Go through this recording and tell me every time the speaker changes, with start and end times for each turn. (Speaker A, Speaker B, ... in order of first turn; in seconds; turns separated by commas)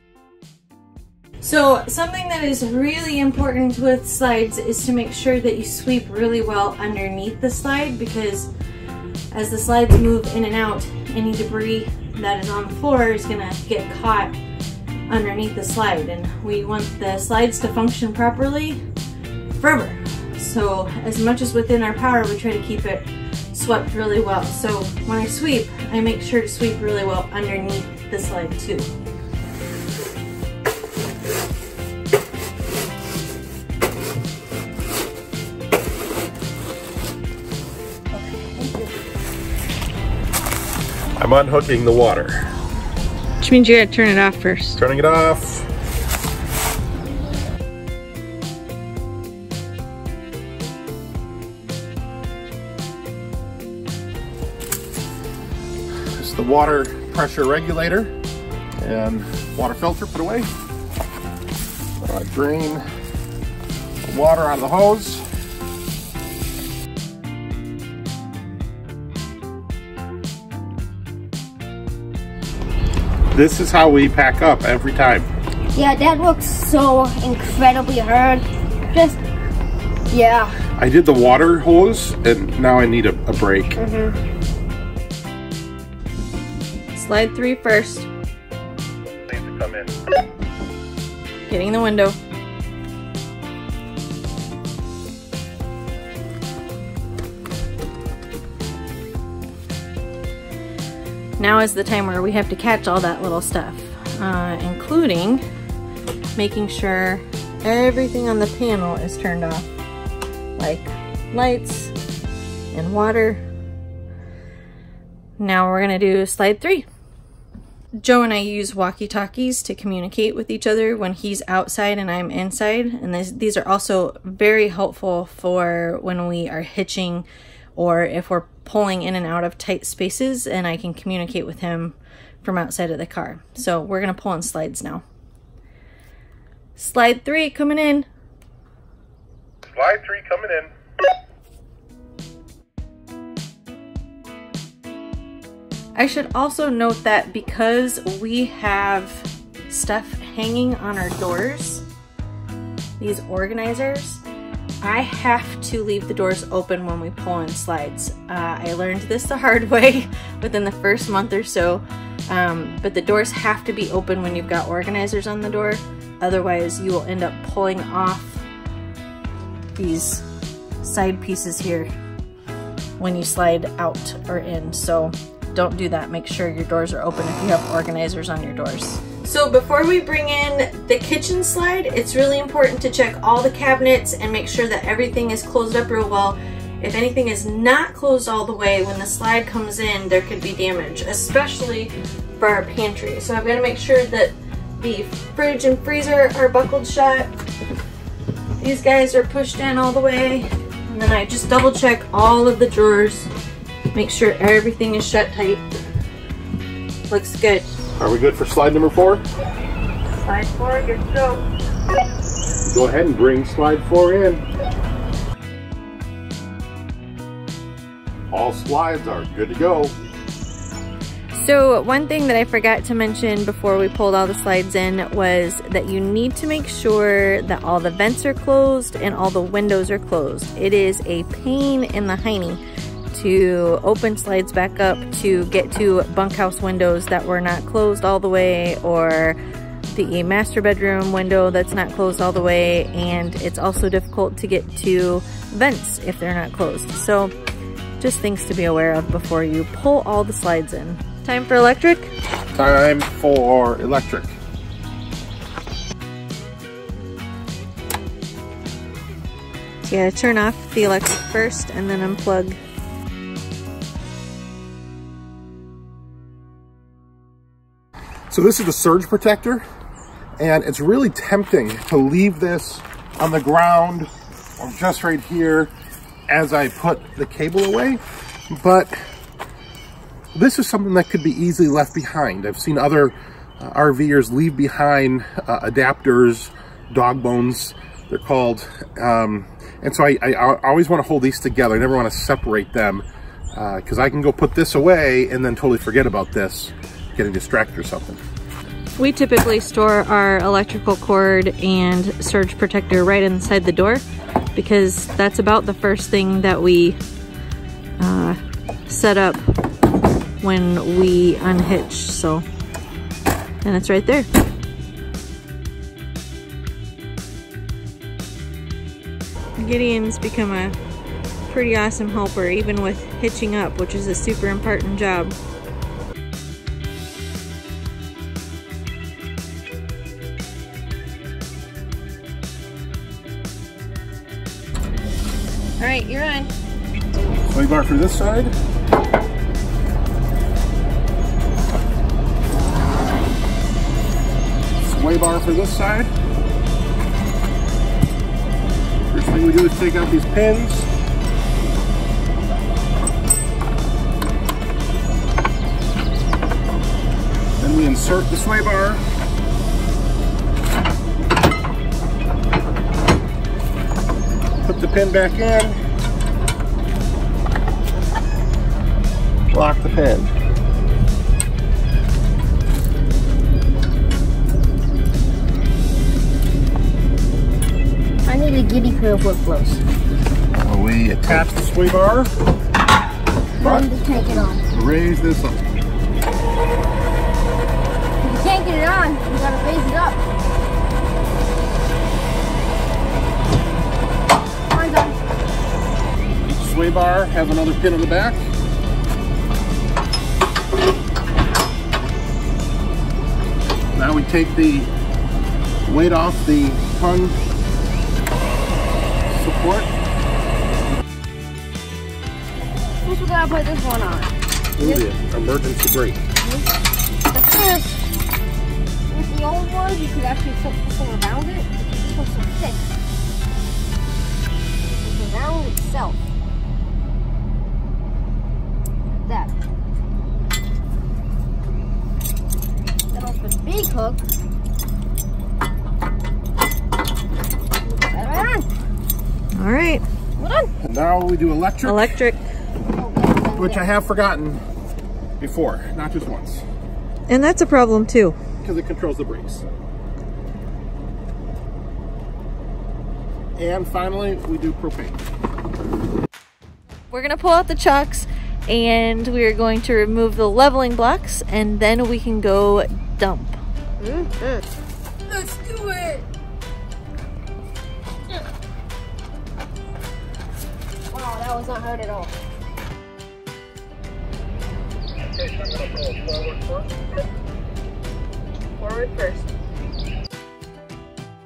Speaker A: 1.4-8.5, Speaker A: 9.3-14.3, Speaker A: 15.1-18.8, Speaker A: 19.6-28.9, Speaker B: 38.1-38.9, Speaker C: 41.2-42.5, Speaker A: 43.4-44.8, Speaker C: 44.8-45.7, Speaker C: 56.2-58.1, Speaker C: 58.8-60.5, Speaker C: 62.0-62.9, Speaker C: 64.0-65.2, Speaker C: 73.3-75.3, Speaker B: 75.7-79.2, Speaker B: 80.1-80.5, Speaker C: 80.8-83.8, Speaker B: 83.8-84.2, Speaker A: 87.0-88.1, Speaker C: 89.2-89.9, Speaker A: 91.5-92.2, Speaker A: 101.4-105.5, Speaker A: 106.4-109.7, Speaker A: 110.6-111.9, Speaker A: 112.7-113.4, Speaker A: 115.4-116.9, Speaker A: 118.0-135.0, Speaker A: 136.8-138.1, Speaker C: 139.7-140.7, Speaker A: 146.0-151.8, Speaker A: 153.0-154.2, Speaker A: 154.8-168.4, Speaker A: 169.8-170.2, Speaker A: 170.8-171.9, Speaker A: 173.0-197.3, Speaker A: 198.6-203.3, Speaker A: 203.9-205.6, Speaker A: 207.1-207.7, Speaker C: 208.0-209.2, Speaker A: 210.2-211.4, Speaker C: 212.7-214.4, Speaker C: 218.3-219.9, Speaker A: 221.3-232.6, Speaker A: 233.1-239.4, Speaker A: 239.9-247.3, Speaker A: 248.0-252.1, Speaker C: 252.5-254.3, Speaker A: 259.9-262.6, Speaker C: 268.3-269.6, Speaker C: 270.4-275.7, Speaker C: 276.3-278.9, Speaker C: 280.3-298.2, Speaker A: 299.0-304.0, Speaker A: 304.6-307.0, Speaker A: 308.0-309.5, Speaker A: 310.4-312.4, Speaker A: 313.6-314.3, Speaker A: 319.6-320.8, Speaker A: 321.5-325.4, Speaker A: 335.8-336.5, Speaker C: 337.5-338.5, Speaker C: 344.8-346.1, Speaker C: 349.1-350.9, Speaker C: 357.6-359.0, Speaker C: 364.6-365.8, Speaker C: 369.5-370.3, Speaker B: 378.2-379.8, Speaker C: 380.6-382.3, Speaker B: 383.6-384.6, Speaker C: 383.6-385.6, Speaker B: 388.2-390.2, Speaker B: 394.7-395.2, Speaker C: 396.4-398.4, Speaker C: 403.9-404.9, Speaker C: 405.9-407.4, Speaker C: 409.3-409.9, Speaker B: 413.0-415.0, Speaker C: 414.8-416.2, Speaker B: 416.4-416.7, Speaker B: 417.2-418.0, Speaker B: 419.1-422.8, Speaker B: 425.0-426.2, Speaker B: 429.2-429.5, Speaker B: 433.1-434.2, Speaker B: 437.9-438.7, Speaker A: 439.6-440.0, Speaker B: 440.4-440.7, Speaker C: 440.8-442.2, Speaker A: 441.8-442.4, Speaker B: 443.0-443.8, Speaker C: 443.6-444.6, Speaker C: 445.4-446.6, Speaker A: 447.3-448.4, Speaker C: 448.6-449.6, Speaker C: 453.6-455.2, Speaker A: 457.1-463.6, Speaker B: 464.0-464.7, Speaker B: 465.3-466.2, Speaker B: 471.1-472.3, Speaker C: 475.4-476.9, Speaker B: 478.8-479.5